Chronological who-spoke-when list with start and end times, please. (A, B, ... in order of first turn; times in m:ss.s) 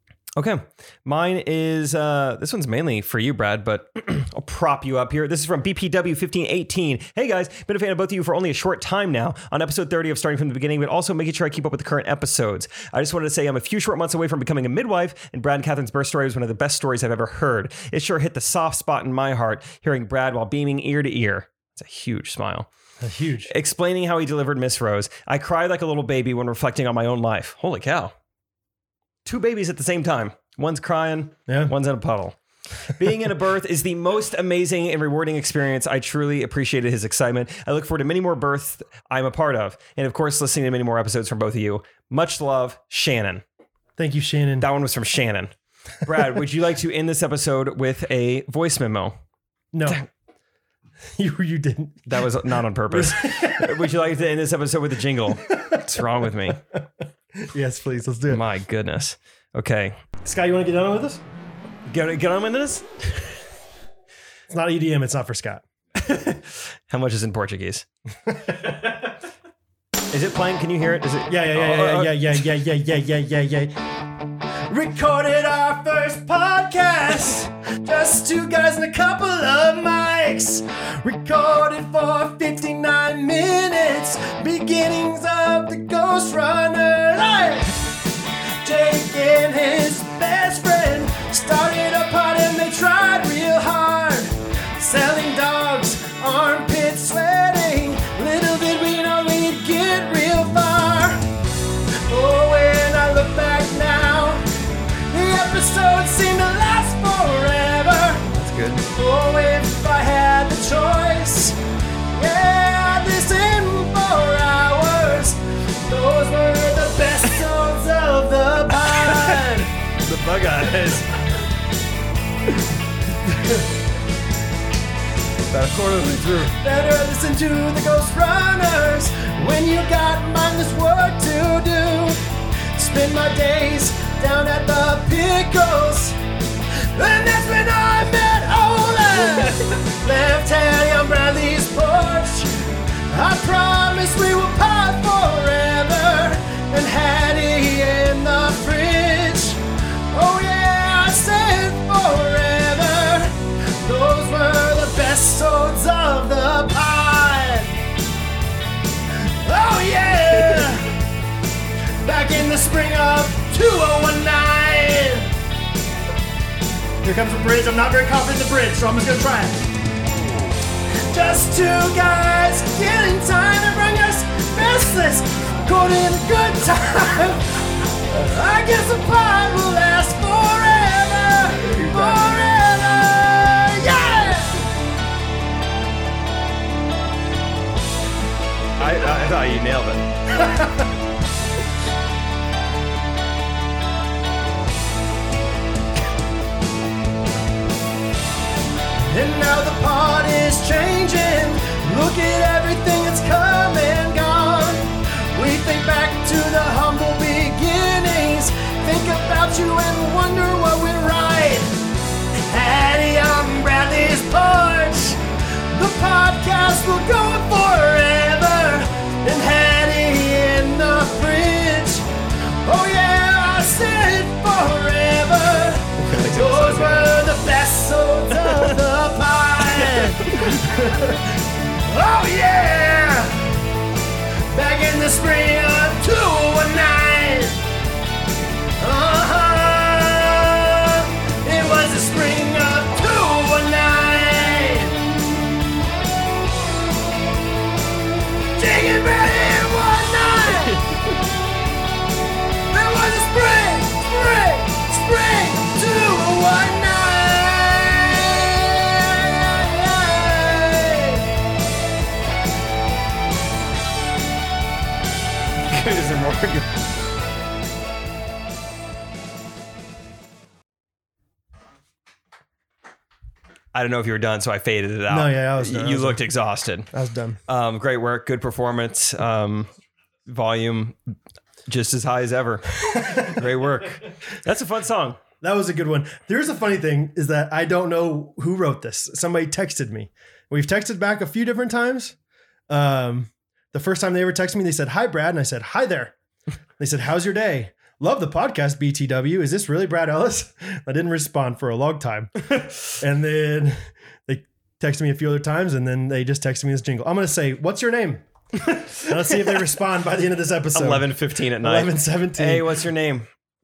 0:00.4-0:22.7 A
0:23.0-0:23.5 B
0:23.5-0:28.1 A
0:29.2-0:43.4 A
0:31.5-0:31.7 B
0:44.0-0:44.7 B
0:44.6-0:49.2 A
0:49.7-0:50.0 B
0:51.2-0:53.8 B
0:52.1-0:56.6 A
0:55.4-0:55.9 B
0:57.4-0:58.4 B
0:58.3-1:00.0 A
1:00.2-1:01.2 B
1:01.9-1:03.4 A
1:04.5-1:05.6 B
1:05.9-1:07.8 A
1:08.2-1:08.8 B
1:10.1-1:12.4 A
1:11.3-1:13.8 B
1:14.7-1:27.7 B
1:28.6-1:41.2 B
1:42.1-1:44.4 B
1:45.1-1:48.3 B
1:48.3-1:48.8 A
1:48.9-1:51.6 B
1:52.1-1:59.7 B
1:58.8-2:01.1 A
2:03.3-2:03.6 B
2:05.5-2:06.6 A
2:06.6-2:12.2 B
2:12.7-2:16.2 B
2:16.8-2:22.5 B
2:23.1-2:37.7 B
2:39.2-2:41.0 B
2:42.0-2:45.3 B
2:47.0-2:49.7 B
2:51.0-3:04.6 B
3:01.6-3:02.4 A
3:08.8-3:10.1 A
3:10.4-3:10.7 B
3:19.0-3:31.8 B
3:32.5-3:42.1 B
3:42.6-3:53.6 B
3:46.0-3:47.2 A
3:48.4-3:48.7 A
3:49.7-3:50.6 A
3:54.5-3:57.6 B
3:58.8-4:05.0 B
4:08.6-4:10.8 B
4:10.6-4:11.2 A
4:12.7-4:21.2 B
4:25.6-4:26.7 A
4:33.7-4:36.9 A
4:35.1-4:36.2 B
4:36.9-4:37.4 B
4:37.5-4:39.7 A
4:40.2-4:41.1 A
4:41.6-4:45.2 A
4:42.9-4:43.4 B
4:45.4-4:52.1 B
4:52.7-4:56.1 B
4:56.8-5:12.8 B
5:08.6-5:09.6 A
5:10.7-5:13.3 A